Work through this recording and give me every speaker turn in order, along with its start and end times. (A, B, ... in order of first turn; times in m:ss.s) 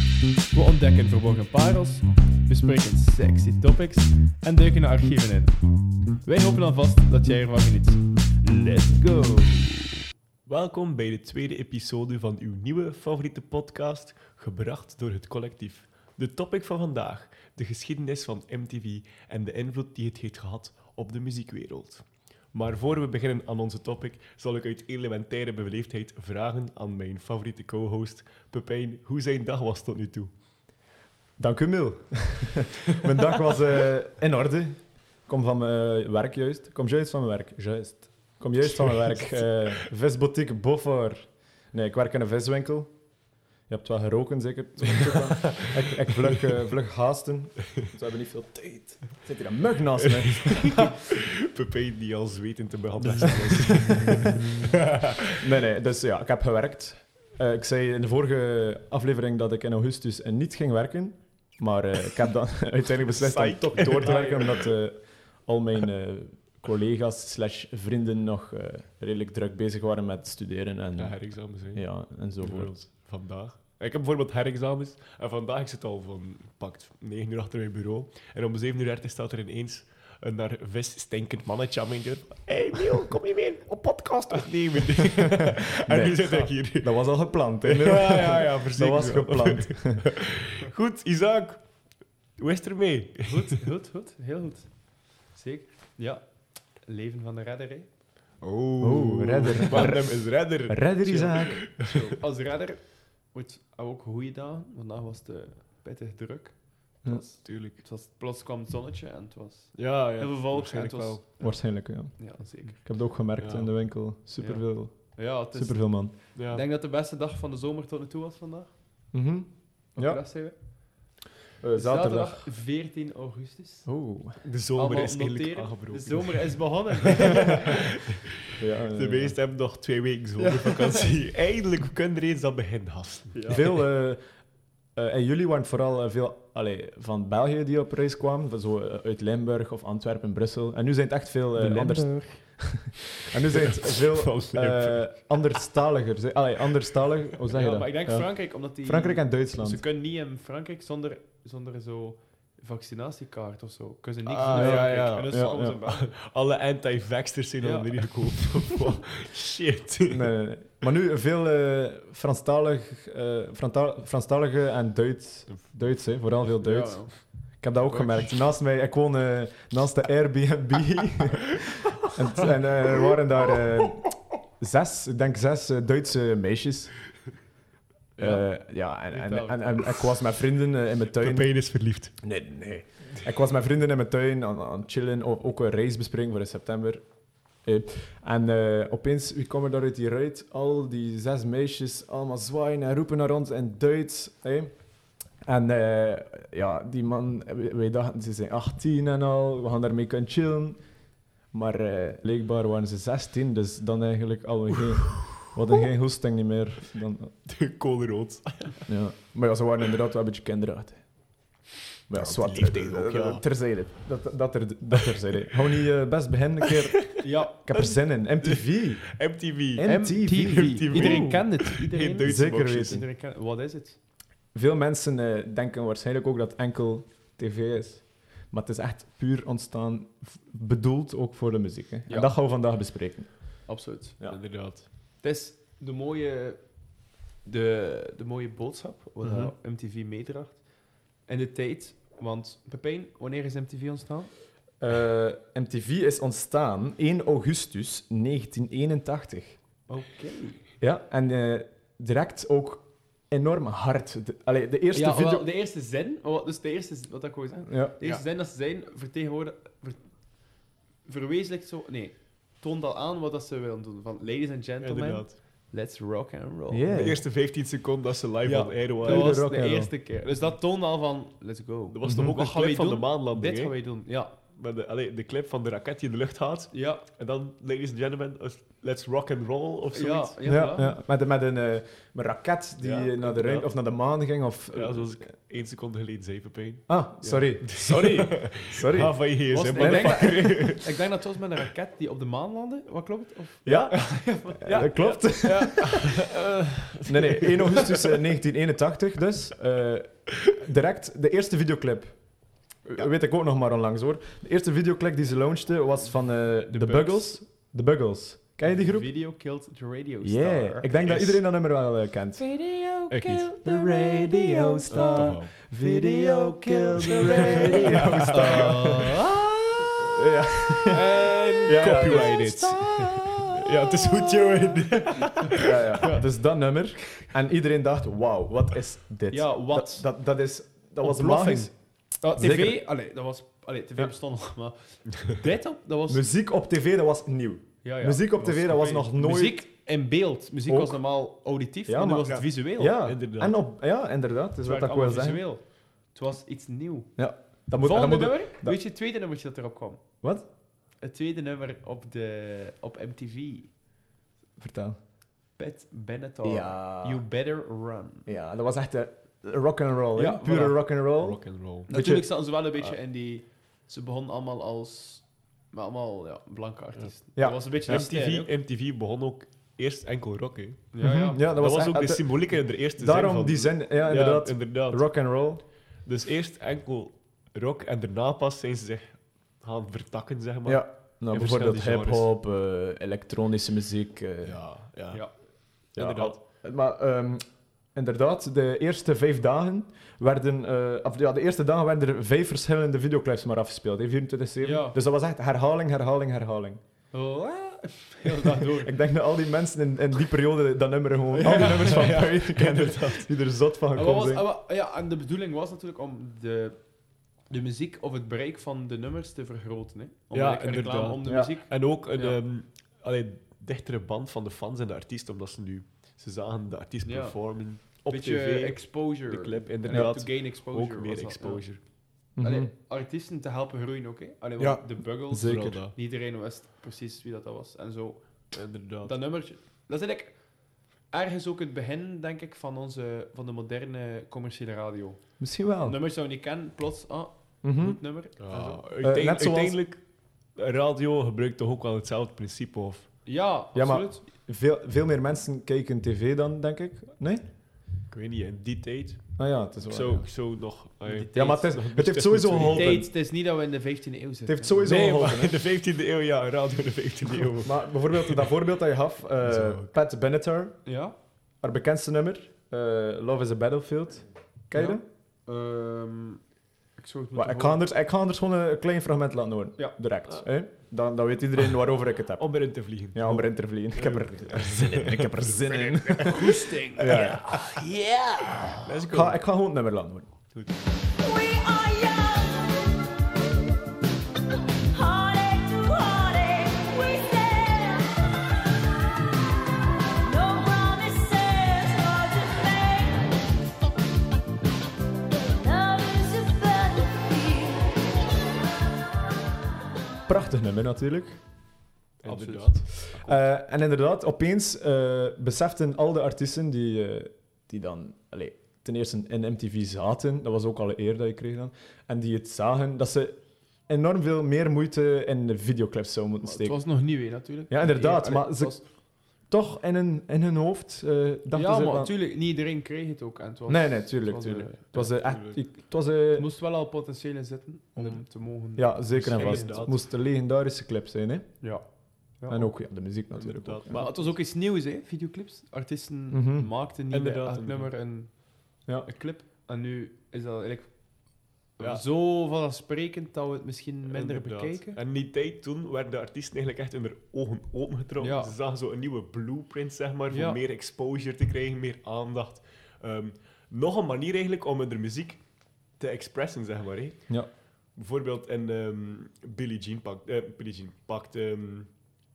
0:00.4-0:05.6 A
0:06.2-0:09.8 A
0:10.5-0:30.3 B
0:31.4-0:43.0 C
0:43.7-0:51.0 C
0:45.1-0:45.8 B
0:50.0-0:55.4 B
0:53.0-0:54.4 C
0:55.3-1:12.8 C
1:03.1-1:04.8 B
1:03.8-1:04.4 A
1:11.0-1:31.7 B
1:25.8-1:30.1 C
1:32.4-1:33.6 B
1:33.2-1:37.9 A
1:38.4-1:42.1 B
1:38.8-1:41.8 C
1:41.8-1:52.8 A
1:47.4-1:47.8 B
1:49.8-1:51.2 B
1:51.4-1:56.1 C
1:53.4-1:53.7 B
1:54.4-1:58.7 A
1:56.3-1:56.6 B
1:59.1-2:00.2 C
1:59.9-2:01.1 A
2:01.6-2:02.5 C
2:01.8-2:04.1 A
2:03.8-2:04.4 C
2:04.4-2:13.7 B
2:04.8-2:07.7 A
2:08.6-2:09.4 C
2:10.6-2:11.1 A
2:13.3-2:13.7 A
2:13.5-2:14.2 C
2:14.9-2:29.8 C
2:21.6-2:22.3 A
2:23.3-2:25.1 B
2:27.5-2:27.8 B
2:27.5-2:36.1 A
2:34.2-2:40.3 B
2:34.5-2:35.8 C
2:37.6-2:38.1 A
2:40.1-2:56.9 C
2:45.5-2:45.8 B
2:46.6-2:48.2 A
2:58.2-2:58.4 A
2:58.2-3:01.5 C
2:59.1-2:59.6 A
3:01.1-3:02.2 B
3:02.2-3:07.0 C
3:07.6-3:14.8 C
3:15.4-3:20.8 C
3:21.5-3:27.3 C
3:24.8-3:25.5 B
3:27.4-3:28.8 B
3:28.9-3:31.0 C
3:32.1-3:39.2 C
3:32.1-3:33.4 B
3:37.1-3:43.0 B
3:37.2-3:37.6 A
3:39.7-3:41.4 C
3:39.8-3:44.0 A
3:42.2-3:43.0 C
3:44.5-3:54.4 C
3:52.1-3:52.3 A
3:53.7-3:54.2 A
3:54.3-3:54.9 B
3:55.2-3:56.8 A
3:57.4-4:00.7 A
3:59.2-3:59.5 B
4:01.2-4:04.3 A
4:04.8-4:09.6 C
4:09.9-4:10.6 A
4:10.8-4:15.4 C
4:14.9-4:20.4 A
4:17.7-4:17.9 C
4:21.0-4:27.1 A
4:24.8-4:25.4 B
4:26.7-4:27.2 C
4:26.9-4:29.4 B
4:28.4-4:34.3 A
4:29.0-4:29.9 C
4:31.9-4:33.9 B
4:32.0-4:32.3 C
4:34.5-4:40.4 B
4:36.7-4:37.0 A
4:39.9-4:40.9 A
4:40.4-4:45.2 C
4:42.8-4:43.7 B
4:44.7-4:51.0 B
4:46.9-4:50.5 C
4:49.5-4:55.9 A
4:53.6-4:56.0 C
4:54.7-4:58.2 B
4:57.0-5:02.2 C
5:02.8-5:09.1 C
5:06.7-5:07.4 A
5:08.6-5:11.2 A
5:10.2-5:12.7 C
5:11.0-5:11.4 B
5:13.0-5:19.5 A
5:13.1-5:13.5 B
5:13.2-5:19.2 C
5:14.9-5:15.6 B
5:16.9-5:19.0 B
5:20.0-5:23.5 C
5:20.9-5:26.2 B
5:20.9-5:23.2 A
5:25.5-5:32.8 C
5:29.3-5:30.1 A
5:31.0-5:36.2 A
5:36.1-5:39.6 C
5:37.8-5:43.0 A
5:40.7-5:41.0 C
5:41.9-5:45.4 C
5:43.0-5:43.6 B
5:44.6-5:47.1 A
5:47.2-5:48.8 C
5:47.8-5:50.0 A
5:51.0-5:53.7 A
5:54.6-5:55.0 C
5:55.6-5:58.3 A
5:56.4-5:57.2 C
5:58.2-6:02.3 C
6:00.1-6:00.8 A
6:01.2-6:01.9 B
6:01.9-6:08.5 A
6:07.4-6:08.0 C
6:07.8-6:15.1 B
6:10.9-6:11.4 A
6:11.0-6:15.6 C
6:16.0-6:22.3 B
6:20.6-6:24.6 C
6:24.4-6:26.4 B
6:25.9-6:36.8 C
6:34.6-6:35.0 A
6:37.1-6:38.9 A
6:38.6-6:44.4 C
6:41.4-6:43.3 B
6:41.4-6:42.2 A
6:43.9-6:46.8 A
6:47.4-6:52.4 A
6:50.3-7:01.8 B
6:51.2-6:51.5 C
6:57.0-7:10.4 A
6:59.9-7:00.1 C
7:02.4-7:02.7 C
7:04.6-7:05.8 C
7:04.6-7:05.9 B
7:08.5-7:09.1 B
7:11.1-7:18.8 A
7:15.4-7:16.0 C
7:17.6-7:18.0 C
7:18.4-7:20.0 B
7:19.0-7:19.8 C
7:20.5-7:23.1 B
7:23.2-7:24.2 A
7:23.7-7:27.4 C
7:28.1-7:33.0 B
7:29.4-7:30.3 C
7:31.0-7:31.7 A
7:31.3-7:33.1 C
7:32.6-7:34.9 A
7:34.4-7:35.6 C
7:34.8-7:38.5 B
7:37.6-7:40.8 C
7:39.4-7:39.9 B
7:40.8-7:41.1 A
7:41.6-7:45.0 C
7:44.7-7:46.4 A
7:47.0-7:47.8 A
7:47.3-7:57.7 C
7:52.4-7:55.6 B
7:55.6-7:58.8 A
7:57.1-7:57.4 B
7:58.8-7:59.4 B
7:59.0-8:00.3 C
8:01.2-8:03.6 D
8:04.9-8:08.8 D
8:10.2-8:13.6 D
8:15.3-8:18.5 D
8:20.2-8:21.4 C
8:22.2-8:23.0 B
8:22.2-8:23.4 A
8:23.1-8:36.8 C
8:36.4-8:38.8 A
8:37.7-8:42.1 C
8:41.5-8:44.9 A
8:43.7-8:46.5 C
8:44.9-8:45.6 B
8:46.4-8:49.8 A
8:48.8-8:51.7 C
8:49.1-8:50.0 B
8:52.4-8:52.8 A
8:52.5-8:54.0 C
8:53.3-8:54.3 B
8:53.9-9:01.0 A
8:56.3-8:56.7 C
8:57.1-8:57.9 B
9:01.8-9:05.0 A
9:01.8-9:02.0 B
9:04.0-9:15.4 B
9:08.2-9:08.5 A
9:10.3-9:10.6 A
9:16.0-9:21.9 B